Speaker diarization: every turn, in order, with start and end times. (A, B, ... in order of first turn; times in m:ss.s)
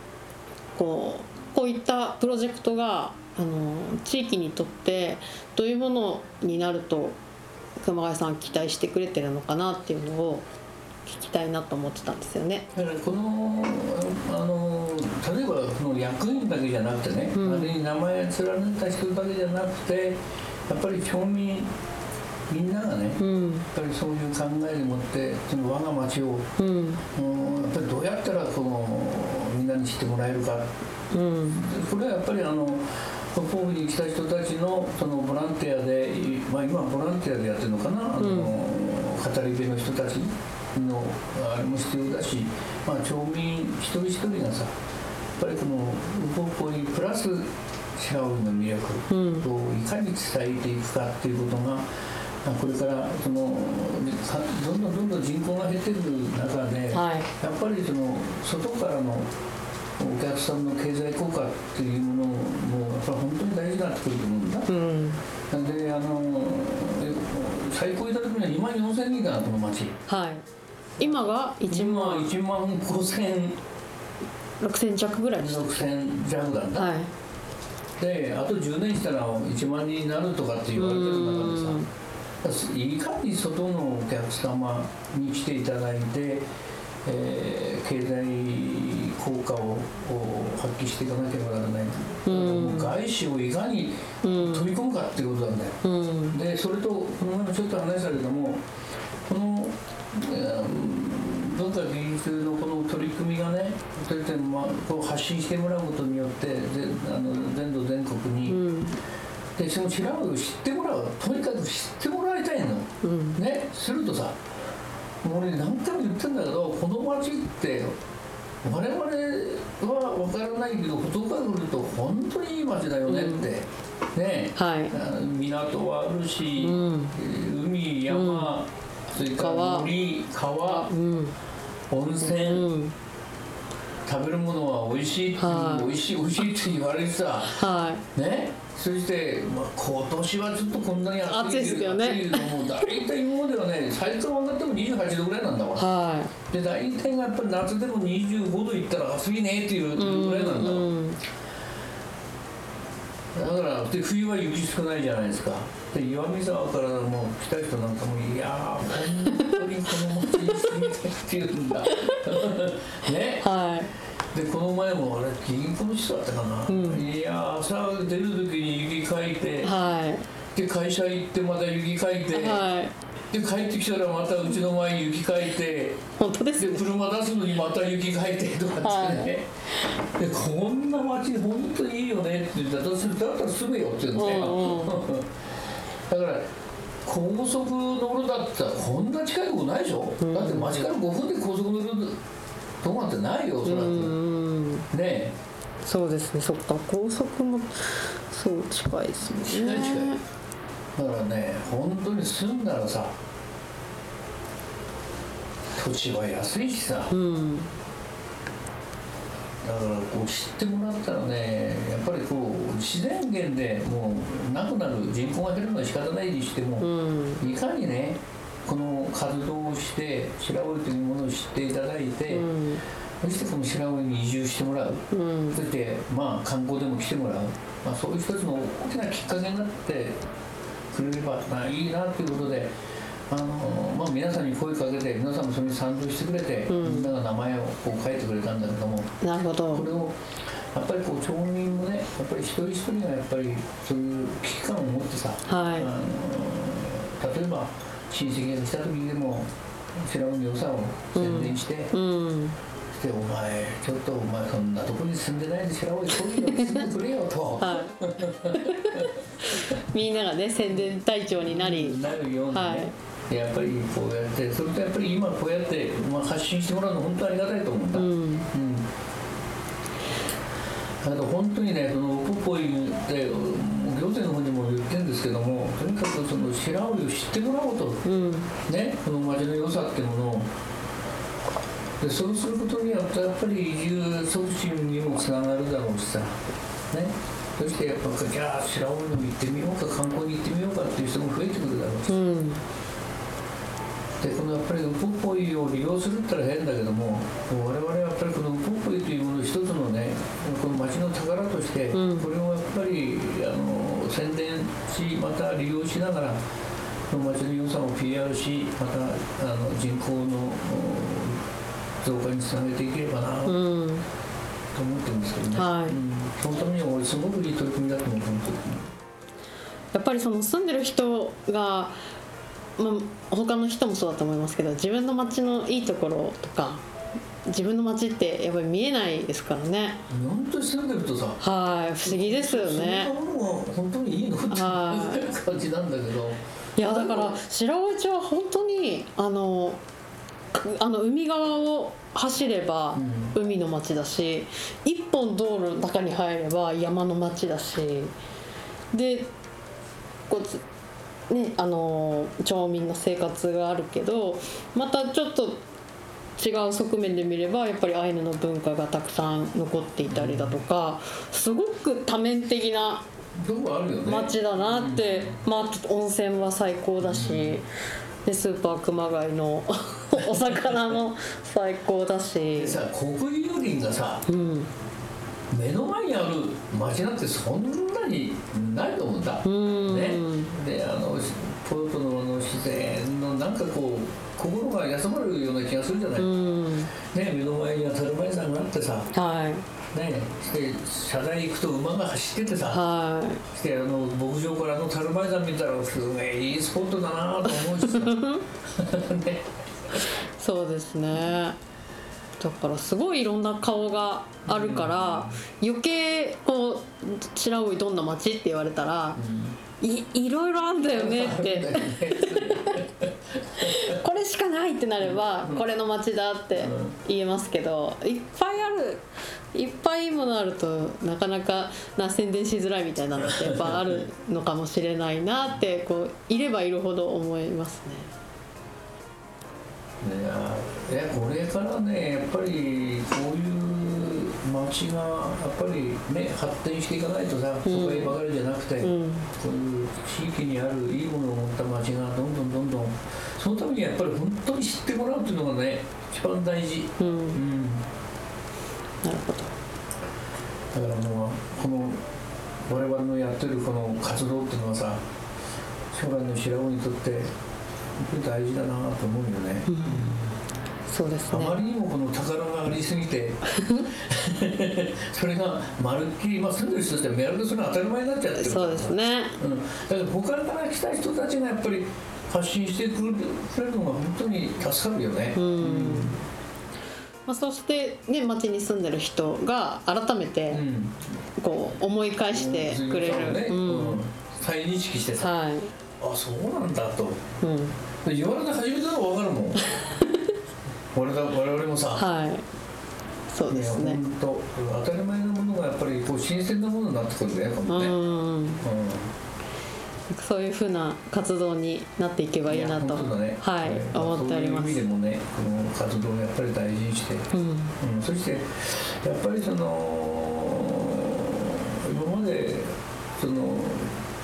0:00.7-0:07.2 A
0:07.8-0:10.5 A
0:11.0-0:12.7 A
0:12.7-0:21.7 B
0:17.3-0:17.8 A
0:22.5-0:26.5 B
0:23.2-0:23.7 A
0:26.6-0:27.0 A
0:27.1-0:30.7 B
0:31.1-0:31.6 A
0:31.5-0:44.8 B
0:38.2-0:38.5 A
0:45.4-0:51.9 B
0:49.1-0:49.5 A
0:52.4-0:59.3 B
0:56.9-0:57.3 A
1:00.0-1:04.7 B
1:04.7-1:05.2 A
1:05.5-1:10.0 B
1:10.1-1:10.4 A
1:11.0-1:12.3 A
1:11.0-1:13.6 B
1:14.6-1:15.9 A
1:15.4-1:16.9 B
1:16.7-1:17.1 A
1:18.0-1:21.8 B
1:20.7-1:21.9 A
1:22.4-1:26.5 B
1:27.0-1:38.6 B
1:32.2-1:32.9 A
1:34.2-1:34.6 A
1:35.8-1:36.4 A
1:39.2-1:48.6 B
1:48.5-1:49.0 A
1:49.6-1:54.4 B
1:53.0-1:53.4 A
1:55.2-1:58.0 B
1:58.6-2:10.9 B
2:03.1-2:03.5 A
2:04.6-2:04.9 A
2:06.6-2:07.2 A
2:08.1-2:08.5 A
2:09.4-2:09.9 A
2:10.6-2:11.4 A
2:11.9-2:12.7 B
2:12.2-2:12.9 A
2:14.0-2:17.6 B
2:15.4-2:15.9 A
2:17.5-2:18.0 A
2:18.1-2:30.9 B
2:21.3-2:22.7 A
2:25.8-2:26.3 A
2:30.0-2:31.2 A
2:33.3-2:43.5 B
2:39.2-2:39.6 A
2:40.4-2:40.6 A
2:41.9-2:42.2 A
2:43.4-2:43.9 A
2:44.3-2:49.7 B
2:46.7-2:47.0 A
2:49.6-2:50.3 A
2:50.5-2:52.6 B
2:52.3-2:52.9 A
2:53.3-3:05.5 B
2:56.2-2:56.9 A
2:58.8-2:59.3 A
3:04.1-3:05.0 A
3:06.1-3:06.5 B
3:07.0-3:12.2 B
3:10.2-3:10.8 A
3:12.8-3:14.2 B
3:13.6-3:14.9 A
3:14.9-3:15.4 B
3:15.8-3:20.2 A
3:19.4-3:20.1 B
3:20.9-3:23.2 B
3:25.7-3:27.1 B
3:27.1-3:27.7 A
3:29.6-3:42.5 B
3:36.8-3:37.4 A
3:42.3-3:42.8 A
3:43.2-3:50.2 B
3:45.1-3:45.6 A
3:50.9-3:52.7 B
3:53.3-3:59.1 B
3:56.7-3:57.1 A
3:59.2-3:59.9 A
3:59.7-4:00.2 B
4:00.7-4:11.9 B
4:05.5-4:05.9 A
4:11.1-4:12.6 A
4:12.9-4:19.8 B
4:16.2-4:16.9 A
4:17.6-4:18.0 A
4:18.5-4:22.0 A
4:21.4-4:28.9 B
4:22.5-4:22.9 A
4:27.9-4:28.5 A
4:31.0-4:38.0 B
4:38.0-4:38.5 A
4:38.6-4:40.5 B
4:42.0-4:46.4 B
4:46.9-4:52.2 B
4:52.1-4:52.6 A
4:54.2-5:06.4 B
5:01.9-5:02.3 A
5:07.1-5:11.4 B
5:12.0-5:13.6 B
5:13.4-5:14.0 A
5:14.7-5:18.9 B
5:15.5-5:16.0 A
5:19.9-5:22.0 A
5:22.8-5:26.8 A
5:27.4-5:30.0 A
5:30.1-5:31.4 B
5:31.4-5:33.1 A
5:32.0-5:37.4 B
5:34.5-5:35.2 A
5:36.8-5:39.8 A
5:40.5-5:48.1 A
5:42.9-5:43.4 B
5:48.9-5:49.3 A
5:50.3-5:50.6 A
5:51.3-5:55.6 A
5:56.4-6:03.0 A
6:00.1-6:00.6 B
6:03.3-6:05.4 B
6:04.0-6:07.7 A
6:07.0-6:07.6 B
6:08.2-6:12.8 A
6:10.2-6:10.9 B
6:12.6-6:14.2 B
6:14.3-6:14.7 A
6:15.5-6:26.3 B
6:19.4-6:20.5 A
6:26.2-6:26.9 A
6:27.0-6:29.1 B
6:29.1-6:29.6 A
6:29.9-6:32.8 B
6:32.7-6:33.4 A
6:33.5-6:39.4 B
6:37.5-6:38.4 A
6:40.0-6:41.6 A
6:42.4-6:49.2 A
6:44.4-6:45.4 B
6:49.2-6:49.6 B
6:49.8-6:52.8 A
6:50.9-6:54.0 B
6:53.6-7:08.1 A
6:55.0-6:55.6 B
6:56.5-6:57.0 B
7:03.2-7:04.0 B
7:10.0-7:27.8 B
7:17.6-7:18.2 A
7:18.8-7:19.3 A
7:27.0-7:27.4 A
7:29.0-7:29.5 A
7:30.7-7:32.0 B
7:32.6-7:35.0 B
7:35.9-7:37.3 B
7:37.9-7:40.4 B
7:39.7-7:40.2 A
7:40.9-7:41.6 A
7:41.3-7:56.2 B
7:43.5-7:43.9 A
7:48.4-7:49.4 A
7:55.3-7:56.2 A
7:57.3-8:00.6 A
8:00.5-8:01.3 B
8:01.4-8:04.0 A
8:02.3-8:05.3 B
8:05.2-8:05.7 A
8:06.0-8:07.2 B
8:07.4-8:07.8 A
8:08.0-8:09.7 B
8:09.6-8:10.2 A
8:10.9-8:12.0 B
8:11.9-8:12.4 A
8:13.3-8:14.0 A
8:13.5-8:18.0 B
8:17.6-8:18.6 A
8:18.6-8:19.1 B
8:20.1-8:24.8 A
8:22.4-8:34.0 B
8:27.3-8:27.8 A